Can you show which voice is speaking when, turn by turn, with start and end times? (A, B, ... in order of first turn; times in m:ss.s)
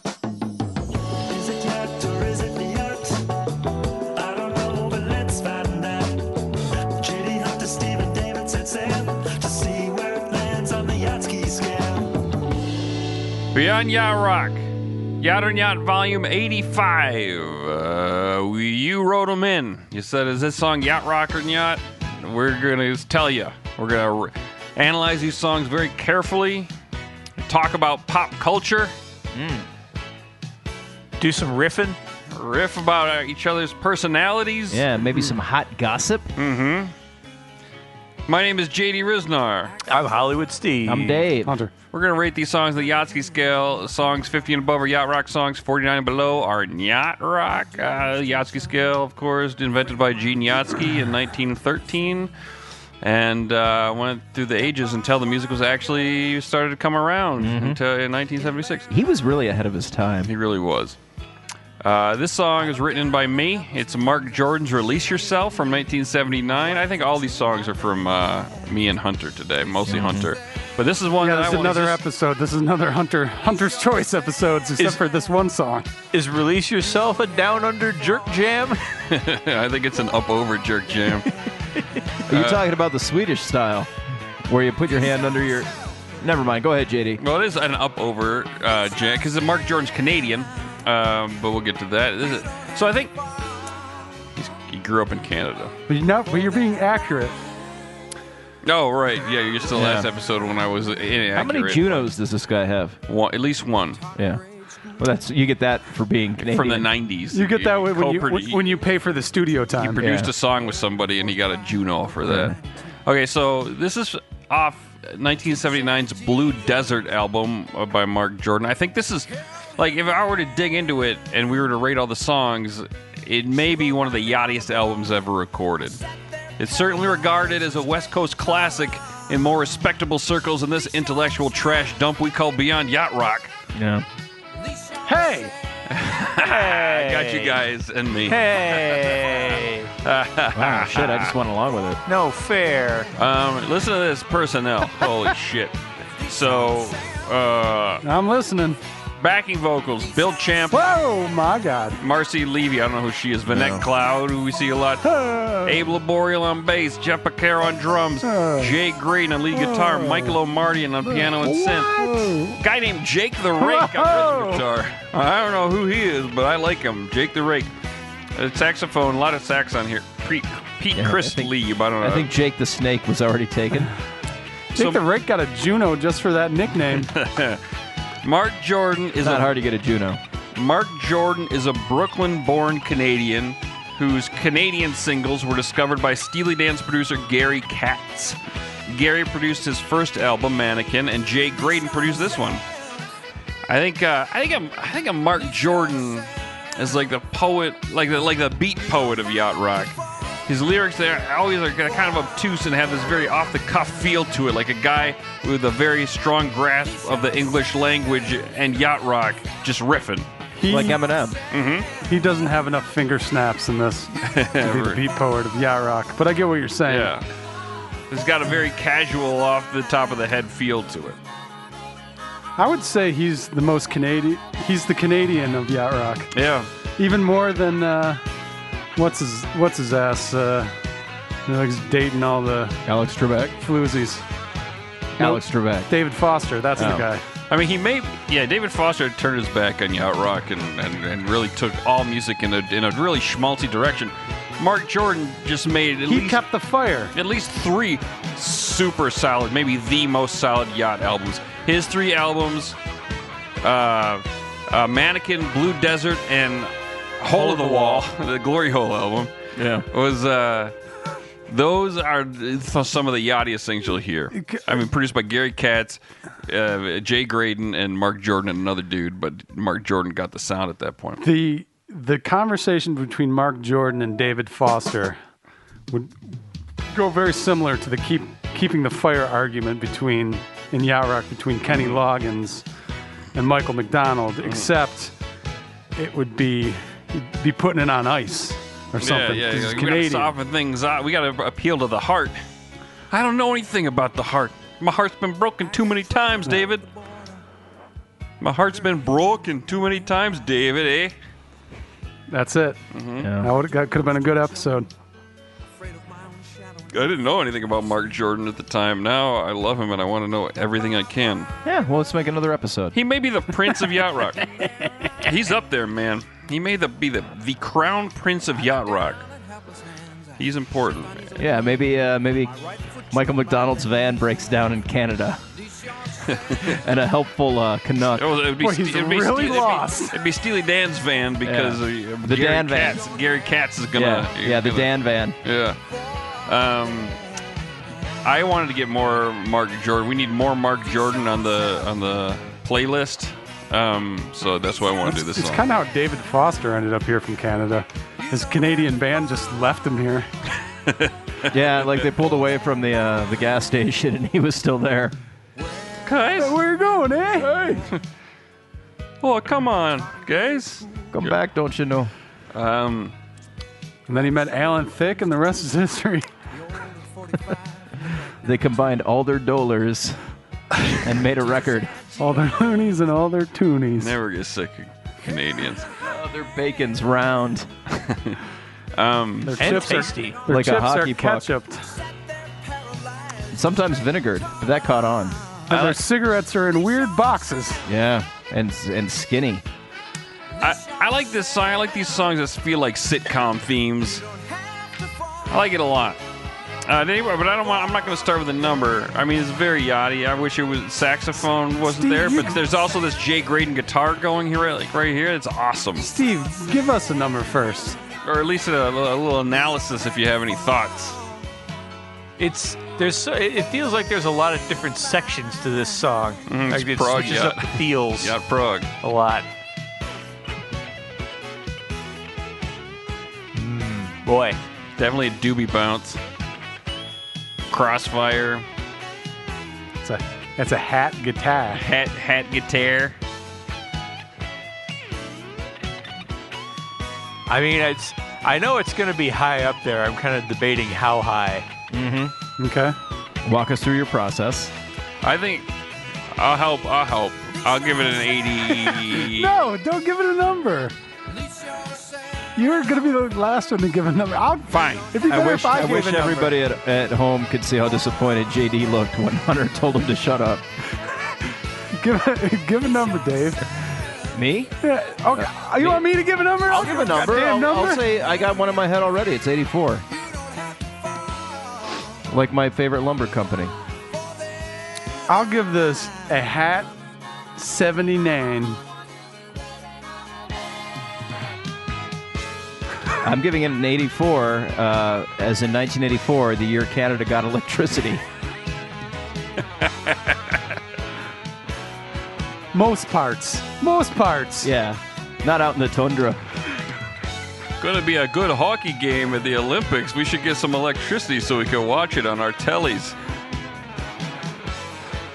0:01.2-0:03.2 A
0:04.1-0:06.3 A
0:06.9-0:12.2 A
0:13.5-0:14.7 B
0:15.2-0:26.7 B
0:27.4-0:28.9 B
0:29.3-0:29.7 C
0:31.2-0:32.0 D
0:32.3-0:34.9 B
0:34.7-0:36.3 C
0:36.4-0:36.9 B
0:38.3-0:39.8 B
0:39.9-0:41.2 D
0:40.8-0:41.5 C
0:41.4-0:41.7 E
0:41.9-0:52.3 B
0:53.0-0:58.9 B
0:57.4-0:57.8 C
0:58.9-1:00.3 C
1:00.2-1:01.0 B
1:01.8-1:12.0 B
1:09.9-1:10.3 C
1:11.2-1:15.9 E
1:16.1-1:18.8 D
1:19.1-1:21.3 B
1:22.3-1:22.6 B
1:22.3-1:23.9 C
1:24.4-1:27.2 C
1:27.2-1:33.2 B
1:34.4-1:35.7 B
1:35.9-1:37.4 E
1:38.6-1:42.0 B
1:39.7-1:40.1 C
1:41.3-1:43.0 C
1:43.1-1:44.0 B
1:44.1-1:44.4 C
1:45.0-1:46.9 C
1:46.4-1:48.7 B
1:47.3-1:50.0 E
1:49.8-2:06.0 B
1:50.0-1:50.3 C
1:52.2-1:52.6 C
2:06.6-2:13.5 B
2:13.7-2:14.0 C
2:15.0-2:15.5 E
2:15.9-2:19.2 B
2:16.4-2:17.6 D
2:18.2-2:19.9 D
2:20.0-2:21.3 B
2:20.5-2:22.0 C
2:22.1-2:23.1 D
2:23.2-2:28.0 B
2:28.0-2:28.8 E
2:29.2-2:31.0 B
2:30.7-2:32.0 E
2:32.0-2:47.7 B
2:33.5-2:33.8 C
2:35.0-2:35.8 E
2:38.2-2:38.7 E
2:39.5-2:40.4 E
2:41.0-2:42.6 E
2:43.6-2:44.6 E
2:48.4-2:52.3 B
2:50.9-2:53.9 C
2:54.7-2:57.1 E
2:54.8-2:55.0 B
2:56.9-2:57.6 B
2:58.2-2:59.5 B
2:59.2-3:00.2 C
3:00.5-3:08.4 B
3:08.9-3:12.6 B
3:13.7-3:30.3 B
3:30.6-3:31.0 E
3:30.7-3:31.4 C
3:31.5-3:31.9 B
3:32.0-3:37.1 E
3:34.2-3:35.0 B
3:36.9-3:37.2 B
3:38.1-3:41.2 B
3:42.6-3:46.3 E
3:46.3-3:46.7 B
3:47.0-3:48.2 E
3:49.0-3:50.7 E
3:51.4-3:52.8 E
3:52.8-3:53.6 C
3:53.6-3:54.2 E
3:55.2-3:55.9 C
3:55.2-3:57.2 E
3:56.8-3:57.0 C
3:57.5-4:06.4 B
4:06.0-4:07.1 E
4:07.1-4:12.8 B
4:13.6-4:19.3 B
4:17.3-4:18.1 E
4:19.6-4:19.8 C
4:19.9-4:20.7 B
4:21.5-4:31.2 B
4:24.3-4:24.8 E
4:31.2-4:35.2 E
4:35.9-4:36.2 E
4:36.9-4:42.6 E
4:41.7-4:42.0 B
4:43.3-4:45.1 E
4:46.0-4:50.3 E
4:49.0-4:52.4 B
4:53.1-4:56.8 B
4:58.4-5:01.1 B
5:02.3-5:02.8 E
5:02.9-5:03.3 B
5:03.2-5:03.5 C
5:03.4-5:04.9 E
5:06.9-5:11.5 B
5:11.6-5:13.0 C
5:12.9-5:14.5 B
5:15.2-5:19.2 B
5:20.4-5:21.4 B
5:21.4-5:22.5 C
5:23.1-5:25.4 C
5:26.2-5:26.7 B
5:26.6-5:28.2 C
5:28.2-5:34.9 B
5:28.6-5:30.2 E
5:31.4-5:33.0 C
5:33.9-5:35.4 C
5:35.4-5:35.8 B
5:36.4-5:37.2 B
5:38.2-5:45.6 B
5:45.0-5:50.3 E
5:50.9-5:51.4 B
5:51.5-5:55.2 C
5:56.0-5:56.6 B
5:56.4-5:57.5 E
5:57.4-5:58.0 B
5:59.2-6:01.3 B
6:01.1-6:02.1 C
6:02.5-6:03.1 B
6:04.1-6:06.2 E
6:08.4-6:10.2 C
6:11.0-6:11.9 C
6:12.2-6:14.1 E
6:14.0-6:15.9 B
6:16.0-6:17.7 C
6:17.9-6:18.4 B
6:18.9-6:19.8 B
6:19.4-6:22.0 E
6:19.6-6:20.4 D
6:20.5-6:21.5 C
6:23.5-6:26.0 C
6:25.7-6:27.9 E
6:27.9-6:29.6 C
6:30.6-6:34.2 B
6:35.5-6:36.2 B
6:36.8-6:46.0 B
6:41.8-6:42.6 E
6:46.0-6:48.0 E
6:48.2-6:51.2 B
6:52.4-6:58.3 D
6:56.5-6:58.9 B
6:59.0-6:59.5 D
7:03.5-7:04.6 D
7:05.0-7:06.2 B
7:07.7-7:08.6 B
7:10.0-7:11.8 E
7:11.7-7:13.2 B
7:17.5-7:21.7 D
7:21.9-7:22.3 C
7:22.6-7:23.0 E
7:23.4-7:24.7 C
7:25.2-7:25.7 B
7:26.3-7:29.5 B
7:28.8-7:30.9 E
7:32.6-7:36.6 E
7:34.7-7:35.1 B
7:35.2-7:40.6 C
7:41.9-7:43.6 E
7:44.3-7:44.7 C
7:44.8-7:48.0 E
7:45.3-7:46.0 C
7:46.7-7:50.0 C
7:52.3-7:53.7 C
7:55.3-7:56.9 E
7:57.6-7:58.8 E
8:03.2-8:08.2 C
8:09.8-8:10.6 B
8:12.7-8:14.7 E
8:14.6-8:16.4 C
8:17.8-8:23.2 B